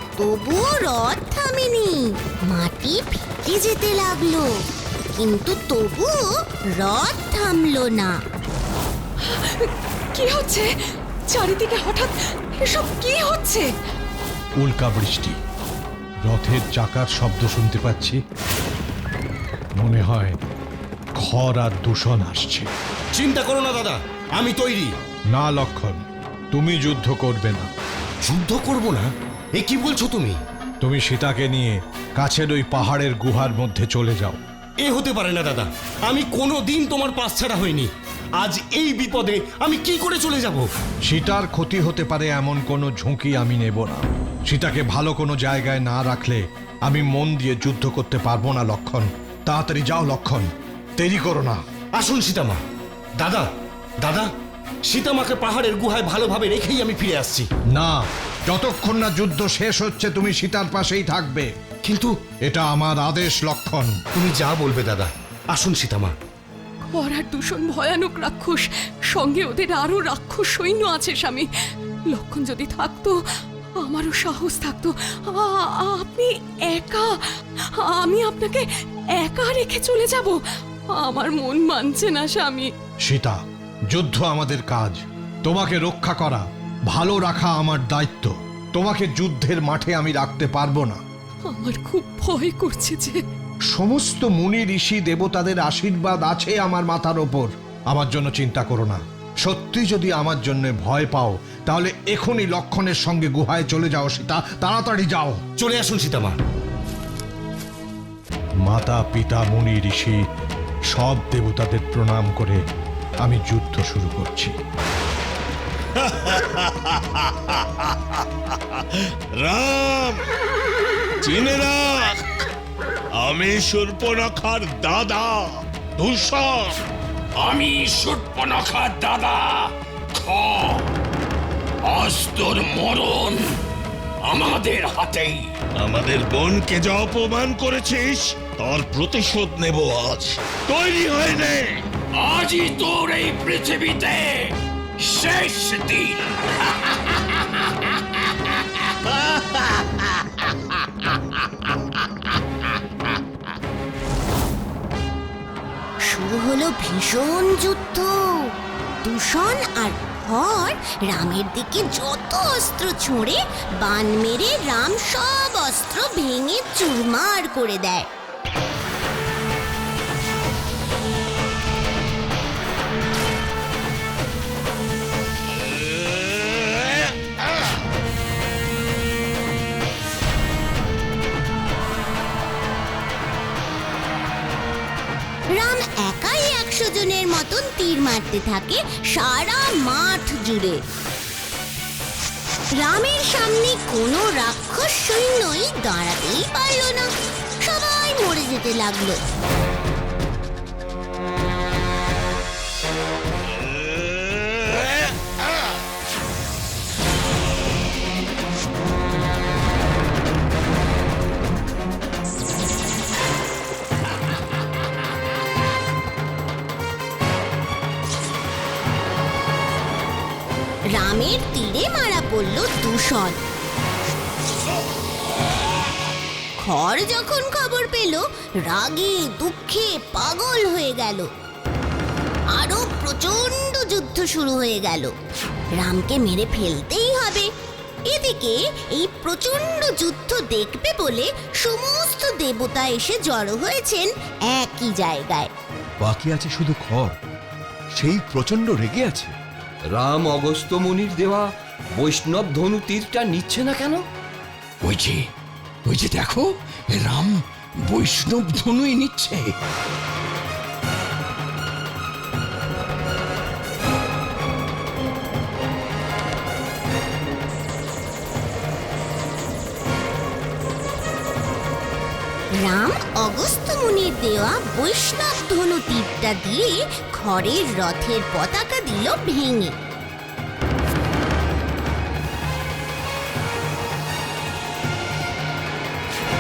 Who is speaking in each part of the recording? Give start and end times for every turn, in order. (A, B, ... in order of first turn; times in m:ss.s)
0:00.2-0:04.6 A
0:05.2-0:06.3 A
0:06.8-0:08.2 A
0:09.3-0:10.7 B
0:11.3-0:13.7 B
0:14.6-0:15.4 C
0:16.3-0:18.2 C
0:19.8-0:20.4 C
0:21.2-0:22.7 C
0:23.1-0:24.9 D
0:25.3-0:26.0 C
0:26.5-0:27.7 C
0:28.2-0:30.4 D
0:30.8-0:34.4 C
0:34.8-0:40.7 D
0:41.1-0:51.6 C
0:52.0-0:52.6 D
0:53.2-0:53.5 D
0:54.0-0:54.3 D
0:54.9-0:57.5 D
0:57.8-1:01.5 C
1:01.8-1:02.1 D
1:02.5-1:04.0 C
1:04.1-1:06.2 D
1:06.9-1:11.5 B
1:12.1-1:13.2 B
1:13.8-1:17.1 B
1:17.8-1:18.7 B
1:19.2-1:20.4 B
1:21.0-1:22.7 B
1:23.1-1:23.4 C
1:23.9-1:31.0 C
1:31.5-1:33.2 B
1:33.7-1:45.4 C
1:45.6-1:46.4 D
1:48.7-1:50.2 C
1:50.9-1:52.6 C
1:53.2-1:54.6 C
1:56.0-2:00.2 E
2:01.2-2:02.2 E
2:03.2-2:05.4 E
2:06.0-2:06.8 E
2:07.4-2:10.9 F
2:11.8-2:13.4 F
2:14.2-2:15.4 F
2:15.8-2:21.8 E
2:22.1-2:26.3 F
2:36.0-2:38.5 A
2:39.0-2:48.1 A
3:05.6-3:10.8 A
3:12.8-3:17.1 A
3:17.6-3:19.2 A
3:23.6-3:25.1 E
3:40.9-3:43.4 A
3:46.6-3:51.3 A
3:52.6-3:55.1 A
3:55.8-3:57.5 A
3:58.1-4:05.5 A
4:06.0-4:07.1 G
4:08.0-4:09.3 G
4:09.9-4:11.5 G
4:12.0-4:14.0 G
4:14.8-4:15.2 F
4:15.9-4:19.5 F
4:32.6-4:39.7 A